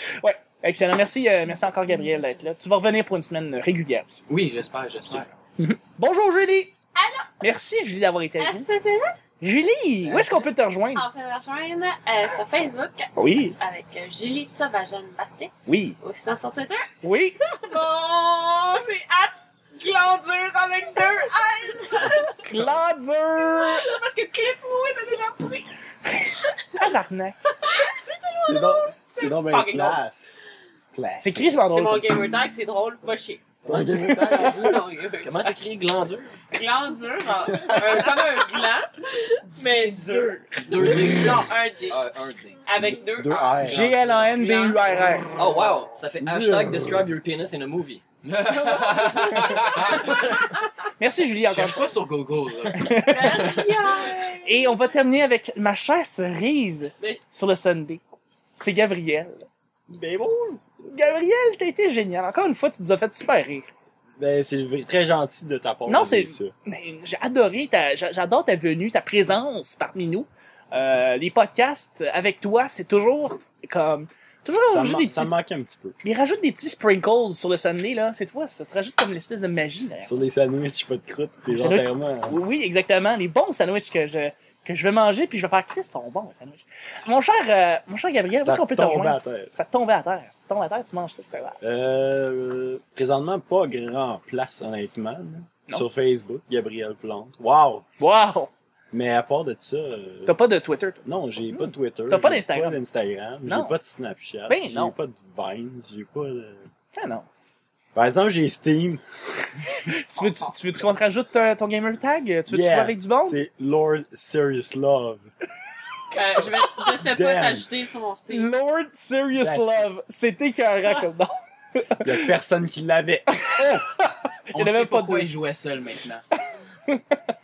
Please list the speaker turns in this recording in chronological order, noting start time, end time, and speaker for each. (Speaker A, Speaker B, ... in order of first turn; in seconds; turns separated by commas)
Speaker A: 0.2-4.2, Speaker B: 4.3-5.3, Speaker A: 5.1-6.7, Speaker C: 6.9-7.3, Speaker A: 7.4-8.7, Speaker D: 8.4-9.1, Speaker A: 9.4-11.1, Speaker B: 10.0-10.4, Speaker D: 10.9-16.9, Speaker A: 13.2-13.5, Speaker A: 15.7-16.0, Speaker A: 17.0-17.4, Speaker C: 17.6-22.5, Speaker A: 22.4-23.9, Speaker C: 23.4-26.7, Speaker A: 26.7-27.4, Speaker C: 27.6-29.4, Speaker E: 28.4-31.6, Speaker D: 29.4-30.0, Speaker A: 31.2-32.1, Speaker D: 31.6-35.6, Speaker F: 33.6-33.9, Speaker E: 33.6-34.7, Speaker F: 35.2-36.4, Speaker D: 36.5-38.9, Speaker E: 37.6-38.0, Speaker D: 39.5-42.0, Speaker C: 39.5-40.4, Speaker F: 40.6-42.6, Speaker E: 40.8-41.4, Speaker D: 42.6-45.0, Speaker E: 43.1-43.9, Speaker A: 43.6-45.3, Speaker F: 45.3-48.0, Speaker E: 46.2-47.1, Speaker B: 48.2-50.2, Speaker A: 49.4-50.1, Speaker A: 51.0-51.9, Speaker B: 51.4-54.0, Speaker A: 52.7-53.5, Speaker C: 53.0-54.8, Speaker A: 54.3-58.0, Speaker A: 58.5-59.5, Speaker E: 59.9-60.6, Speaker A: 60.8-63.7, Speaker E: 64.2-66.5, Speaker A: 65.9-75.3, Speaker E: 74.7-76.0, Speaker A: 76.0-80.2, Speaker E: 80.0-82.4, Speaker A: 81.5-91.6, Speaker E: 88.4-89.5, Speaker E: 91.6-97.8, Speaker A: 98.0-98.5, Speaker E: 98.9-100.3, Speaker A: 100.2-102.8, Speaker E: 101.0-106.7, Speaker A: 103.4-103.7, Speaker A: 104.5-104.9, Speaker A: 106.9-107.3, Speaker E: 107.9-109.0, Speaker A: 109.7-113.4, Speaker D: 110.2-110.5, Speaker E: 112.5-115.3, Speaker D: 116.1-118.5, Speaker E: 117.0-117.7, Speaker A: 118.3-122.3, Speaker E: 119.4-119.9, Speaker E: 122.0-123.9, Speaker A: 123.4-125.3, Speaker B: 124.5-126.2, Speaker A: 126.9-127.3